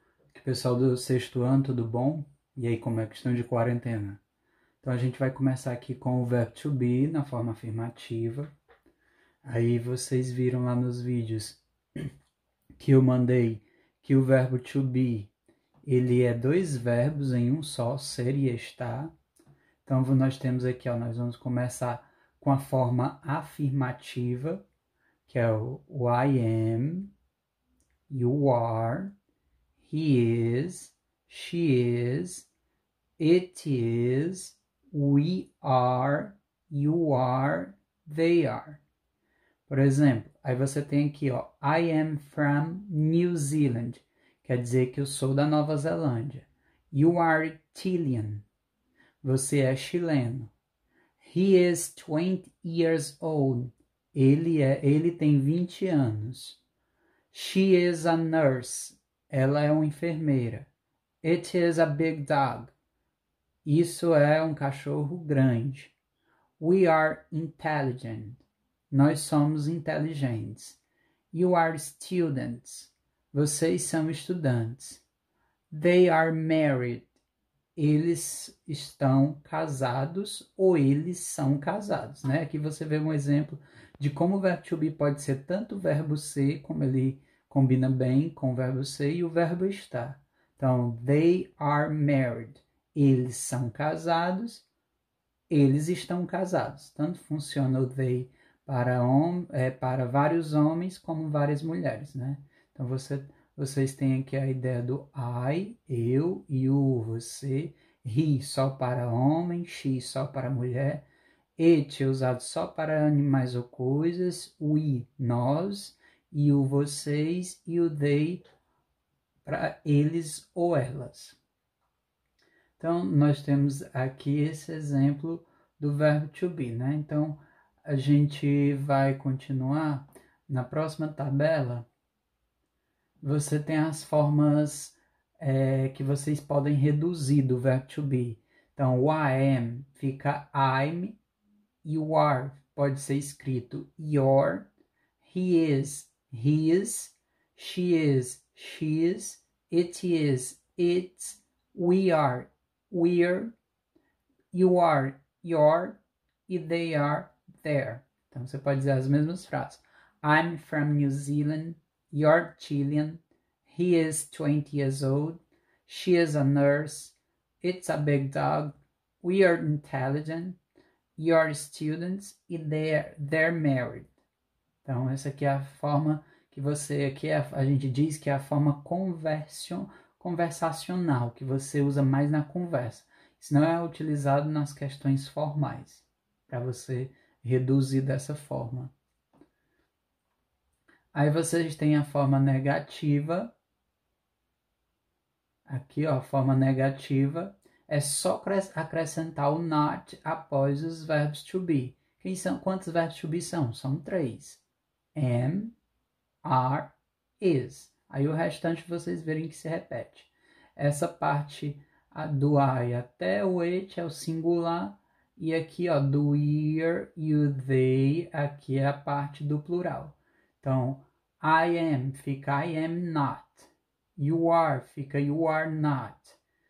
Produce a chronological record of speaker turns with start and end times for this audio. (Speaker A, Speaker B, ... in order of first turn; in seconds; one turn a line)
Speaker A: 0.3-4.2
Speaker A: 4.8-8.5
Speaker A: 9.4-11.6
Speaker A: 12.8-15.3
Speaker A: 15.8-19.1
Speaker A: 19.8-24.6
Speaker A: 25.2-27.1
Speaker A: 28.1-29.1
Speaker A: 29.8-32.5
Speaker A: 33.2-38.8
Speaker A: 39.7-48.5
Speaker A: 49.2-50.5
Speaker A: 51.2-56.6
Speaker A: 57.3-60.7
Speaker A: 61.2-62.7
Speaker A: 63.6-65.9
Speaker A: 66.6-70.8
Speaker A: 71.3-75.0
Speaker A: 75.7-77.1
Speaker A: 77.8-94.7
Speaker A: 95.5-111.0
Speaker A: 111.6-118.4
Speaker A: 119.4-121.4
Speaker A: 122.8-131.9
Speaker A: 133.2-141.2
Speaker A: 141.8-144.7
Speaker A: 145.2-153.5
Speaker A: 154.5-170.6
Speaker A: 171.2-174.1
Speaker A: 174.8-188.9
Speaker A: 191.1-193.5
Speaker A: 195.7-204.6
Speaker A: 205.1-205.8
Speaker A: 206.4-226.4